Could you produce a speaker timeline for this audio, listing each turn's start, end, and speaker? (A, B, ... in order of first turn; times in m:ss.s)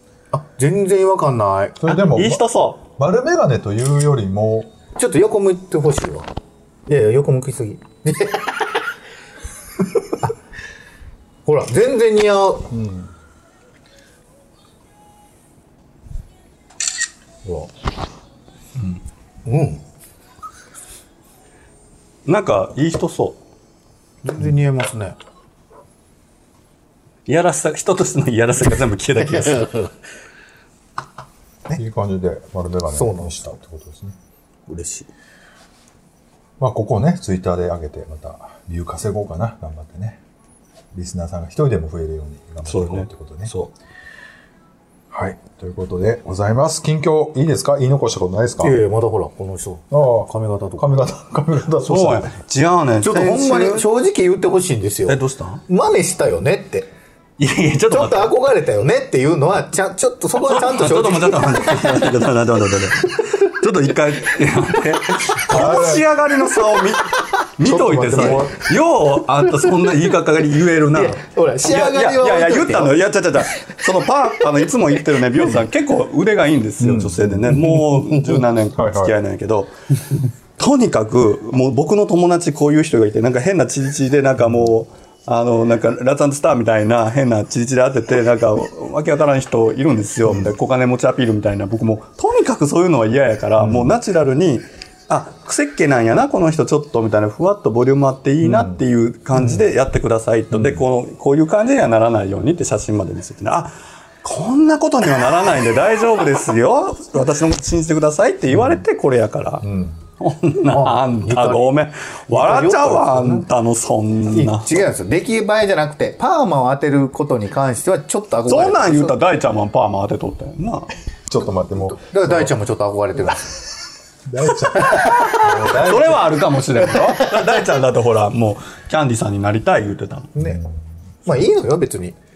0:00.3-0:01.8 A
0:01.8-0:02.4 B
0:01.9-0:02.8 C
0:03.0-0:04.7 B
0:05.0-0:06.3 A
0:06.9-0:08.6 A
0:11.4-0:12.7 A
0:12.7-0:13.1 B
0:19.4-0:19.8 A
0:22.2-0:23.4 C
0:24.2-0:25.2 A
0:27.3-0:29.7 C
0:29.2-0:29.9 A
0:31.8-0:34.2 B
0:32.9-0:33.5 A
0:34.7-0:35.1 A
0:36.6-0:40.2 B
0:40.9-0:43.5 B
0:42.7-0:43.1 C
0:45.1-0:48.8 B
0:48.6-0:51.0 A
0:49.9-0:52.3 B
0:51.8-0:53.9 C
0:53.0-0:56.9 A
0:55.1-0:55.6 C
0:57.4-0:58.3 C
0:57.9-1:02.1 A
1:00.4-1:49.6 C
1:03.2-1:03.4 A
1:05.5-1:06.1 B
1:07.6-1:08.7 B
1:10.9-1:13.0 A
1:16.8-1:17.6 B
1:17.9-1:18.4 A
1:18.7-1:19.2 B
1:24.4-1:24.7 B
1:33.6-1:33.9 B
1:38.4-1:38.8 B
1:39.4-1:39.6 B
1:40.5-1:40.8 B
1:48.5-1:48.8 B
1:49.6-1:50.0 B
1:50.2-1:54.7 C
1:50.7-1:51.7 A
1:52.3-1:53.4 A
1:54.3-1:59.2 A
1:58.5-2:00.9 C
2:01.3-2:02.5 B
2:01.9-2:03.6 A
2:04.2-2:06.4 B
2:04.7-2:05.4 A
2:04.8-2:10.3 C
2:06.9-2:07.4 A
2:10.4-2:10.6 A
2:10.4-2:10.8 B
2:11.2-2:12.2 A